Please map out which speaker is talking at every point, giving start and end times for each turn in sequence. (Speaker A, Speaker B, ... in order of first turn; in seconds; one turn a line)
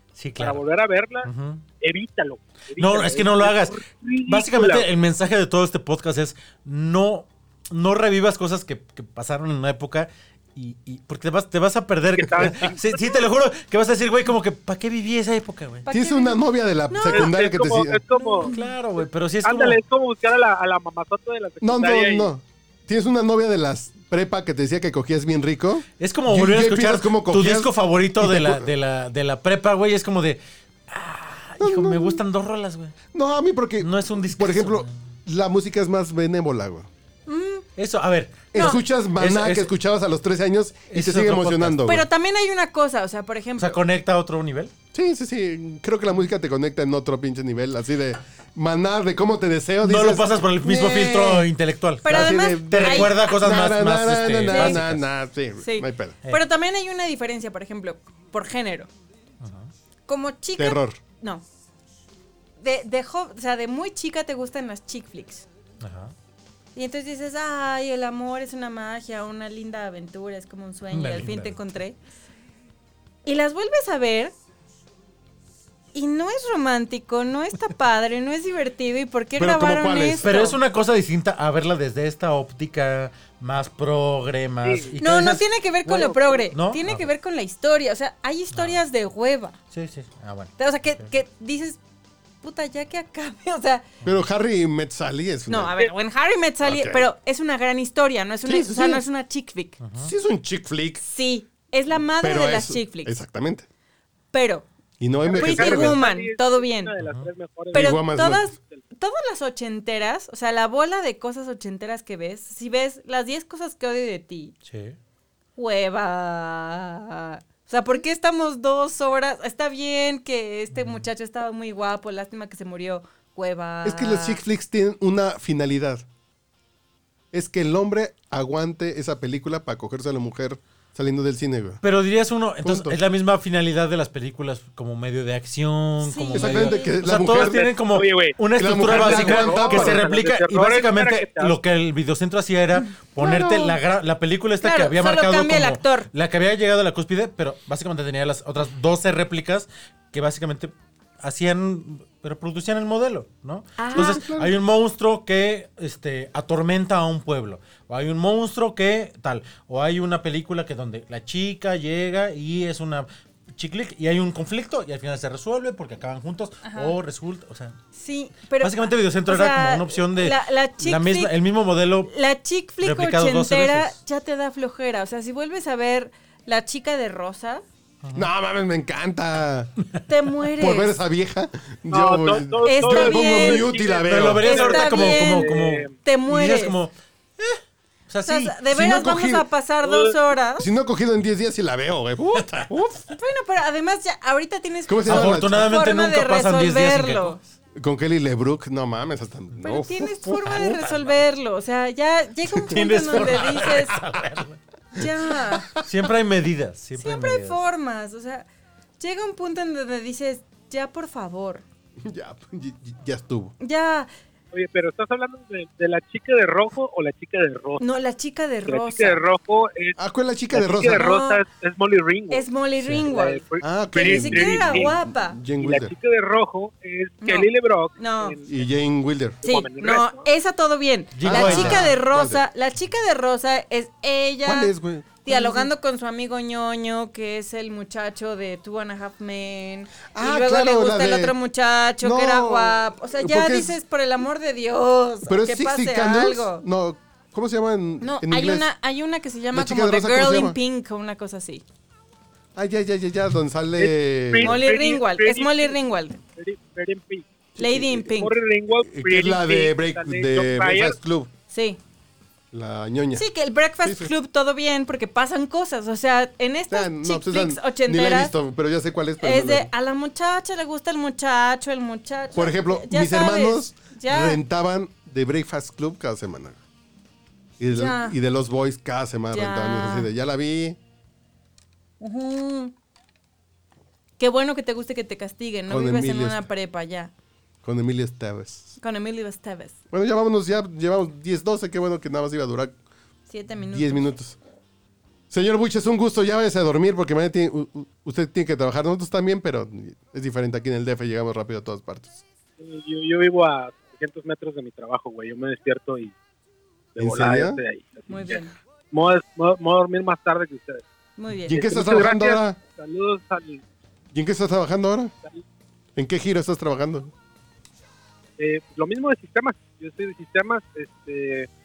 Speaker A: 0.1-0.6
Speaker B: 0.4-1.3
Speaker A: 1.2-1.6
Speaker B: 1.8-4.9
Speaker A: 2.8-15.9
Speaker B: 12.2-12.8
Speaker C: 12.9-13.2
Speaker C: 15.8-16.4
Speaker D: 15.9-18.0
Speaker C: 16.9-17.3
Speaker B: 17.1-22.3
Speaker C: 18.1-18.8
Speaker A: 18.4-19.8
Speaker D: 21.6-28.7
Speaker A: 26.0-32.9
Speaker D: 31.6-32.2
Speaker D: 33.1-36.9
Speaker A: 33.8-34.9
Speaker C: 37.3-37.6
Speaker A: 37.8-39.7
Speaker D: 38.5-42.0
Speaker C: 38.5-38.8
Speaker A: 40.9-42.0
Speaker C: 41.8-43.8
Speaker A: 43.6-44.7
Speaker D: 44.9-50.4
Speaker A: 49.8-55.0
Speaker C: 50.6-51.5
Speaker C: 52.0-53.5
Speaker D: 52.1-56.2
Speaker C: 54.5-54.8
Speaker C: 55.6-58.9
Speaker A: 59.4-59.7
Speaker C: 60.1-61.4
Speaker D: 60.6-61.0
Speaker C: 62.6-65.5
Speaker A: 65.8-66.1
Speaker C: 66.7-72.0
Speaker A: 70.9-71.6
Speaker C: 73.2-74.3
Speaker C: 75.9-80.6
Speaker D: 79.4-80.3
Speaker A: 80.2-87.1
Speaker B: 84.6-85.0
Speaker C: 85.0-89.6
Speaker B: 85.9-86.4
Speaker A: 88.5-88.8
Speaker A: 89.7-91.1
Speaker C: 90.6-91.8
Speaker C: 92.4-93.8
Speaker D: 94.0-95.8
Speaker C: 95.5-99.8
Speaker D: 96.6-97.0
Speaker D: 98.5-99.0
Speaker A: 99.8-100.1
Speaker D: 100.0-101.0
Speaker C: 101.0-103.1
Speaker D: 102.2-103.7
Speaker C: 104.3-104.7
Speaker D: 105.0-106.0
Speaker B: 105.2-108.8
Speaker C: 105.3-106.9
Speaker A: 107.0-107.3
Speaker D: 107.7-108.5
Speaker C: 107.7-114.5
Speaker A: 114.7-115.0
Speaker C: 115.6-124.4
Speaker A: 120.7-121.1
Speaker D: 123.8-126.0
Speaker D: 127.3-131.8
Speaker A: 131.8-167.8
Speaker D: 132.6-133.0
Speaker C: 136.0-136.9
Speaker D: 136.3-137.6
Speaker B: 137.2-141.6
Speaker D: 138.6-140.0
Speaker C: 139.4-139.8
Speaker C: 143.2-143.8
Speaker C: 144.6-146.1
Speaker C: 153.8-154.2
Speaker D: 153.9-154.5
Speaker C: 166.6-167.0
Speaker C: 167.9-171.3
Speaker A: 168.5-172.1
Speaker C: 172.0-177.6
Speaker A: 172.8-174.0
Speaker A: 178.0-178.3
Speaker D: 178.1-179.7
Speaker C: 180.1-181.0
Speaker D: 180.5-184.4
Speaker B: 181.9-185.9
Speaker C: 182.6-183.7
Speaker A: 184.0-188.6
Speaker C: 184.4-186.8
Speaker C: 188.2-190.7
Speaker D: 188.7-189.5
Speaker B: 189.8-190.2
Speaker D: 190.6-193.1
Speaker C: 193.1-197.4
Speaker D: 194.9-195.7
Speaker A: 195.1-197.4
Speaker D: 197.7-200.4
Speaker C: 199.6-204.0
Speaker A: 200.3-201.2
Speaker A: 202.6-204.6
Speaker C: 204.9-205.7
Speaker D: 205.0-205.8
Speaker A: 205.8-207.6
Speaker C: 206.9-208.5
Speaker C: 209.0-211.6
Speaker D: 212.0-213.5
Speaker C: 213.6-214.1
Speaker B: 214.5-217.8
Speaker C: 217.8-219.2
Speaker B: 218.7-220.0
Speaker D: 220.0-221.1
Speaker B: 220.5-224.9
Speaker C: 221.0-221.4
Speaker C: 222.3-225.4
Speaker D: 223.6-225.9
Speaker B: 225.6-228.6
Speaker C: 227.2-228.4
Speaker D: 228.5-229.4
Speaker B: 229.4-230.3
Speaker C: 229.4-246.6
Speaker A: 231.1-231.9
Speaker D: 231.2-232.4
Speaker D: 234.4-235.6
Speaker D: 240.1-241.3
Speaker D: 242.0-243.8
Speaker D: 245.2-248.7
Speaker C: 248.0-251.6
Speaker D: 249.5-250.6
Speaker D: 252.5-254.6
Speaker B: 253.8-255.8
Speaker C: 254.4-256.2
Speaker B: 256.3-261.0
Speaker D: 257.6-258.0
Speaker C: 257.6-258.3
Speaker D: 258.8-261.3
Speaker C: 261.5-261.8
Speaker D: 262.5-263.2
Speaker C: 263.1-268.3
Speaker D: 263.8-264.1
Speaker D: 266.7-269.7
Speaker C: 269.2-274.4
Speaker D: 272.3-276.6
Speaker D: 277.6-280.8
Speaker C: 277.7-278.1
Speaker C: 279.3-280.1
Speaker C: 282.0-282.7
Speaker C: 284.2-287.1
Speaker D: 285.7-286.4
Speaker D: 287.6-288.8
Speaker C: 288.8-289.8
Speaker D: 289.9-292.8
Speaker C: 293.3-294.1
Speaker D: 293.7-294.4
Speaker D: 295.3-302.2
Speaker B: 302.6-306.1
Speaker B: 306.9-310.8
Speaker D: 307.0-307.6
Speaker C: 308.1-308.5
Speaker C: 311.2-311.6
Speaker D: 311.5-312.6
Speaker B: 311.5-313.6
Speaker D: 314.1-315.1
Speaker D: 315.9-317.1
Speaker B: 318.4-321.5